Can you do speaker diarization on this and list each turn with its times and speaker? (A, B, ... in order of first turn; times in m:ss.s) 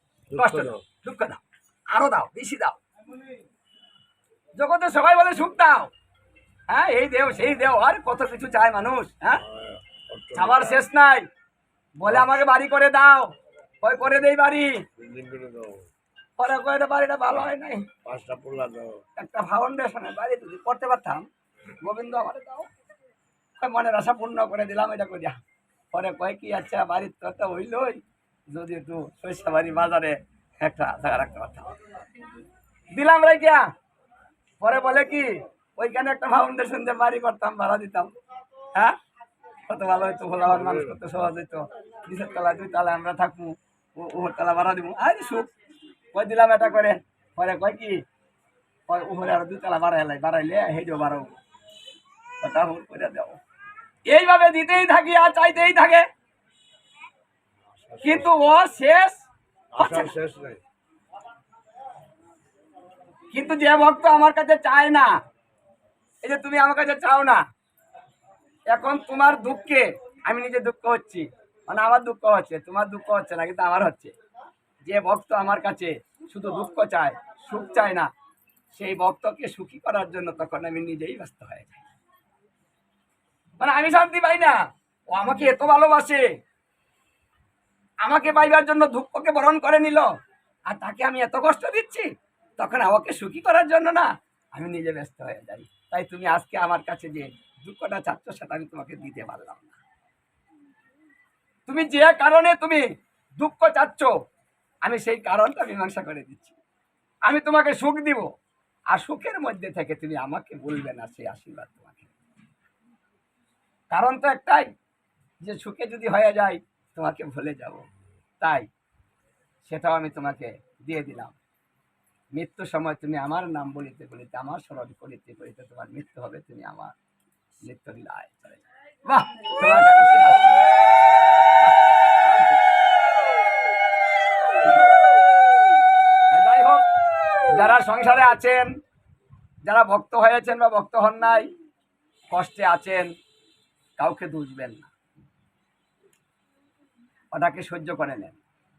0:00.3-0:00.8 A
0:00.3-0:01.4 B
0:01.9-0:02.8 B
0:04.6-0:05.9 B
0:06.7-0:09.4 B
0:09.4-0:10.8 A
0:10.3-0:11.2 B
0:12.0-0:13.3 B
0:13.8-0:14.8 B
0:15.0-0:15.9 A
0:16.4-0:17.9 B
0:18.0-0:19.0 A
0:19.2-0:21.2 B
0:21.8-0:22.7 B
0:23.6-0:25.4 B
0:25.9-0:31.7 B
0:32.9-0:33.6 B
0:34.6-0:38.1 B
0:39.7-0:45.5 B
0:40.5-0:41.0 A
0:46.1-0:48.0 B
0:48.9-0:51.3 B
0:52.4-0:53.4 B
0:54.0-0:56.0 B
0:57.6-0:58.3 A
0:58.0-0:59.2 B
0:59.7-1:00.6 A
0:59.7-1:00.1 B
1:03.3-1:05.1 B
1:06.2-1:07.4 B
1:08.7-1:14.1 B
1:14.8-1:18.1 B
1:18.7-1:21.8 B
1:23.6-1:24.6 B
1:25.1-1:26.2 B
1:28.0-1:30.1 B
1:30.7-1:39.8 B
1:41.7-1:42.8 B
1:43.4-1:44.1 B
1:44.8-1:46.6 B
1:47.2-1:48.3 B
1:48.9-1:52.1 B
1:53.9-1:54.7 B
1:55.4-1:57.8 B
1:58.4-1:58.7 B
1:59.6-2:01.4 B
2:02.3-2:06.9 B
2:07.6-2:10.7 B
2:11.6-2:12.6 B
2:16.3-2:16.8 B
2:17.5-2:18.7 B
2:19.6-2:21.5 B
2:22.3-2:23.1 B
2:24.0-2:24.9 B
2:27.3-2:28.4 B